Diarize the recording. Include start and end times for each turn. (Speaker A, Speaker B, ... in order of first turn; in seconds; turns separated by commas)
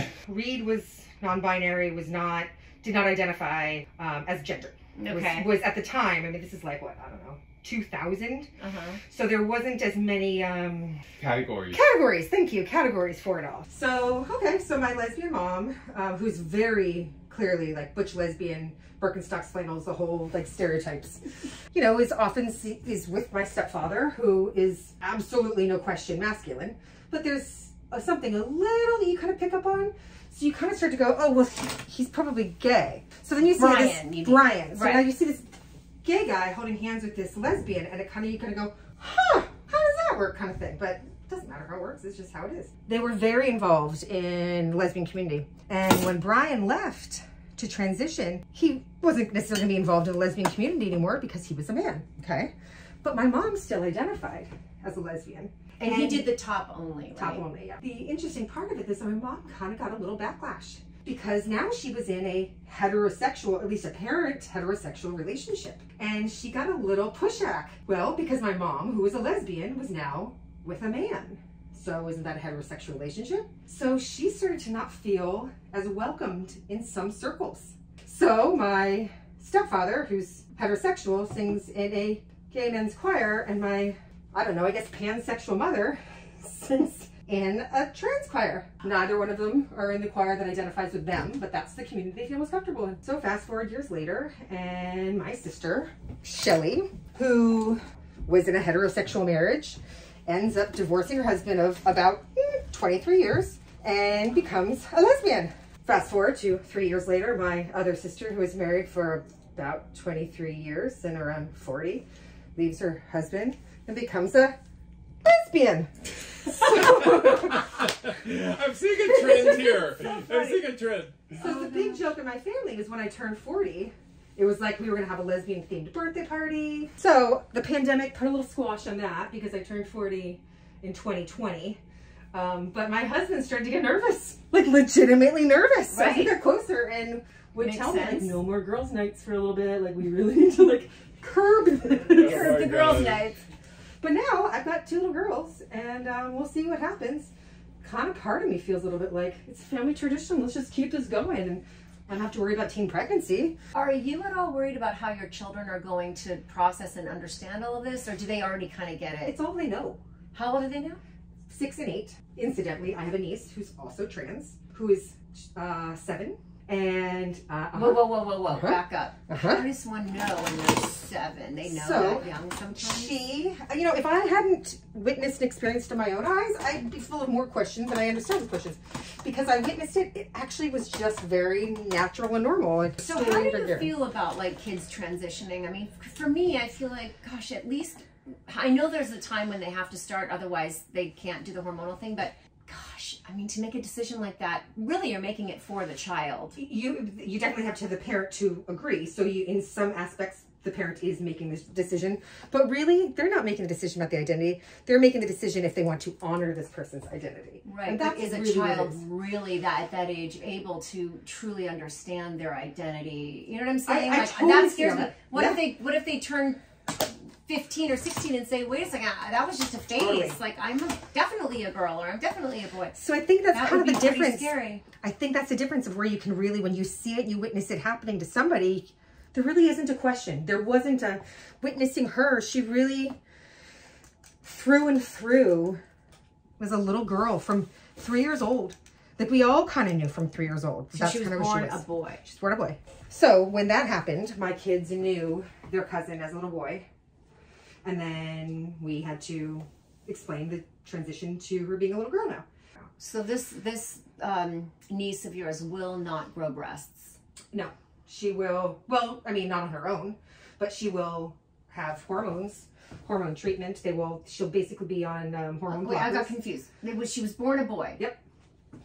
Speaker A: 0.2-8.5, Speaker B: 5.0-5.5, Speaker B: 8.6-9.0, Speaker A: 9.1-11.0, Speaker C: 11.2-11.8, Speaker A: 11.7-35.5, Speaker B: 33.5-35.1, Speaker A: 36.0-56.3, Speaker B: 55.8-57.4, Speaker A: 57.2-112.0, Speaker A: 112.6-114.6, Speaker A: 115.2-115.9, Speaker A: 116.4-117.6, Speaker C: 116.5-121.4, Speaker A: 119.3-120.6, Speaker B: 121.4-122.1, Speaker A: 121.4-131.8, Speaker A: 132.3-142.6, Speaker B: 135.9-136.4, Speaker B: 137.6-138.4, Speaker C: 142.1-143.3, Speaker B: 142.2-143.4, Speaker A: 144.0-153.6, Speaker B: 153.7-159.4, Speaker A: 159.2-160.0, Speaker B: 160.3-161.0, Speaker A: 161.5-169.7, Speaker B: 167.7-173.1, Speaker A: 171.6-183.9, Speaker B: 183.0-196.6, Speaker A: 196.6-209.0, Speaker B: 207.6-223.0, Speaker A: 213.9-215.6, Speaker A: 219.9-220.4, Speaker A: 222.9-233.2, Speaker B: 223.5-224.8, Speaker A: 234.4-235.8, Speaker A: 236.6-246.9, Speaker B: 240.9-242.2, Speaker A: 247.8-252.4, Speaker B: 253.0-257.2, Speaker A: 257.5-266.3, Speaker B: 265.7-268.0